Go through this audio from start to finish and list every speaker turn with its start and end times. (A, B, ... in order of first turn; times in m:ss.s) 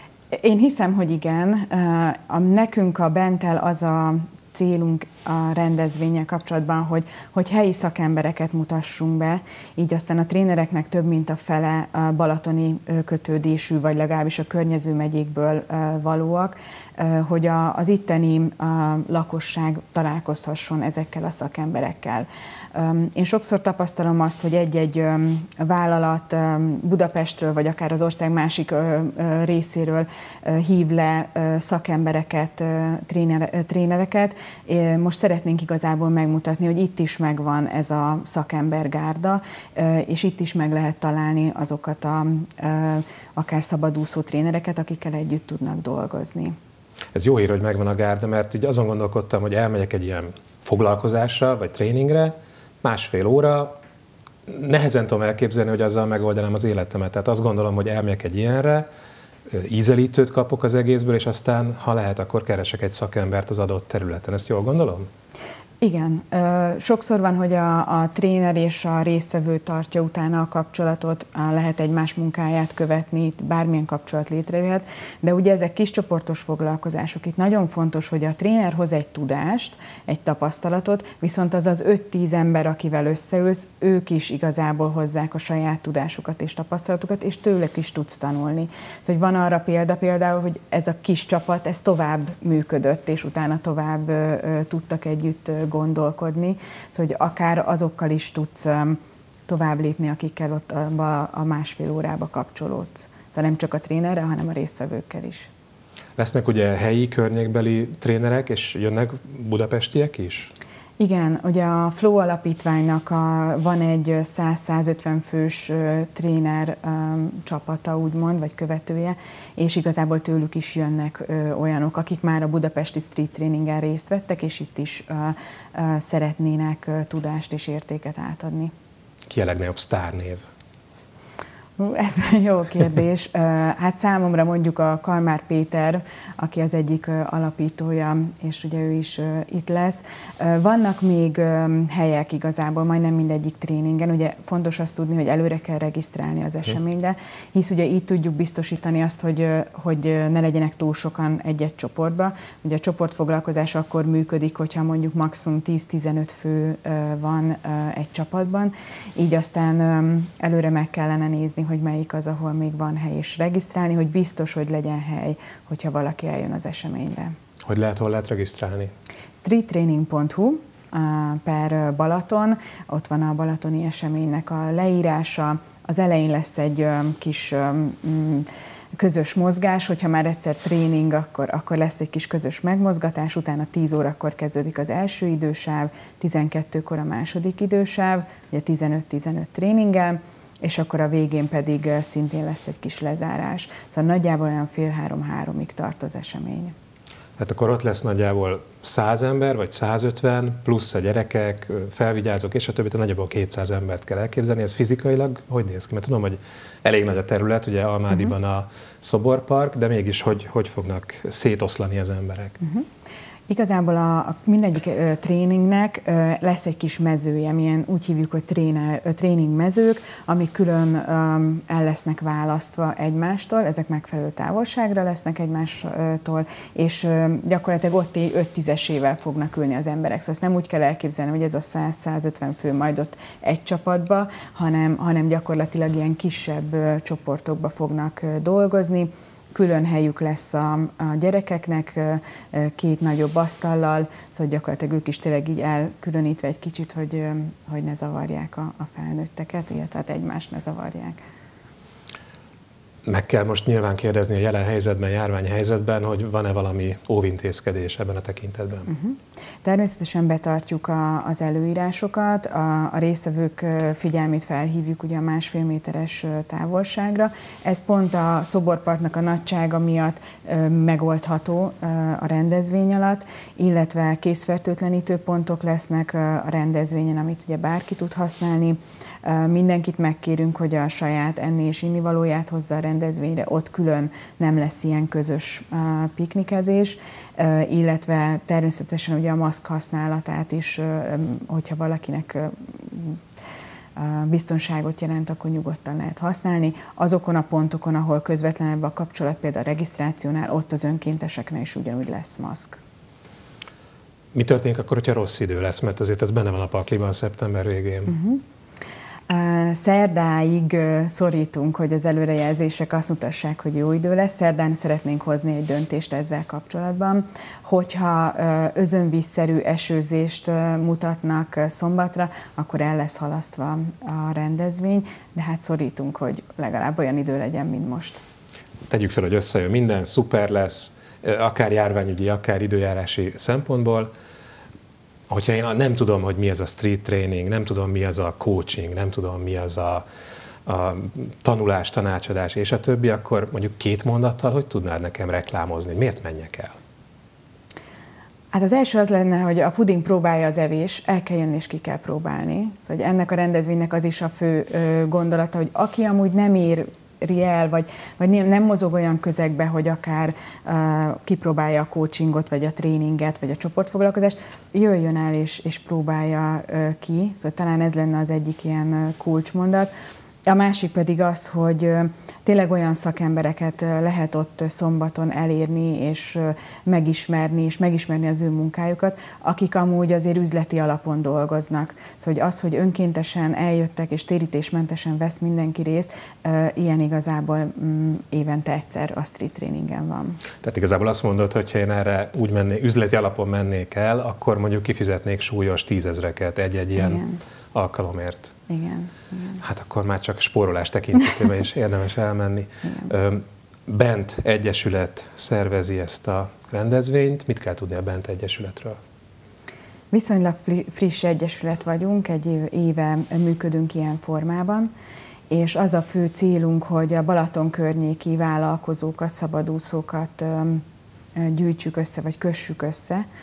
0:00.3-0:46.6 A
0:47.1-0:53.8 B
0:54.5-0:58.9 B
0:59.5-1:05.1 B
1:05.8-1:45.5 A
1:46.2-1:50.5 B
1:51.0-2:08.7 A
2:09.3-2:10.5 B
2:11.8-2:47.4 A
2:47.6-2:48.9 B
2:49.4-3:16.7 A
3:17.4-3:32.6 B
3:32.6-3:32.9 A
3:33.5-4:11.2 A
4:13.0-4:18.9 B
4:18.9-4:53.2 A
4:54.0-5:02.8 A
5:04.3-5:08.2 B
5:08.1-5:08.4 A
5:09.3-5:28.2 A
5:28.9-5:34.1 B
5:35.3-5:40.0 B
5:40.7-5:46.8 B
5:48.5-6:09.9 A
6:10.5-6:30.4 A
6:30.6-6:37.2 B
6:37.0-6:37.4 A
6:37.7-6:38.6 B
6:38.7-6:39.6 A
6:39.6-6:49.0 B
6:42.8-6:43.1 A
6:50.1-6:54.9 A
6:55.5-7:00.8 A
7:01.4-7:03.2 A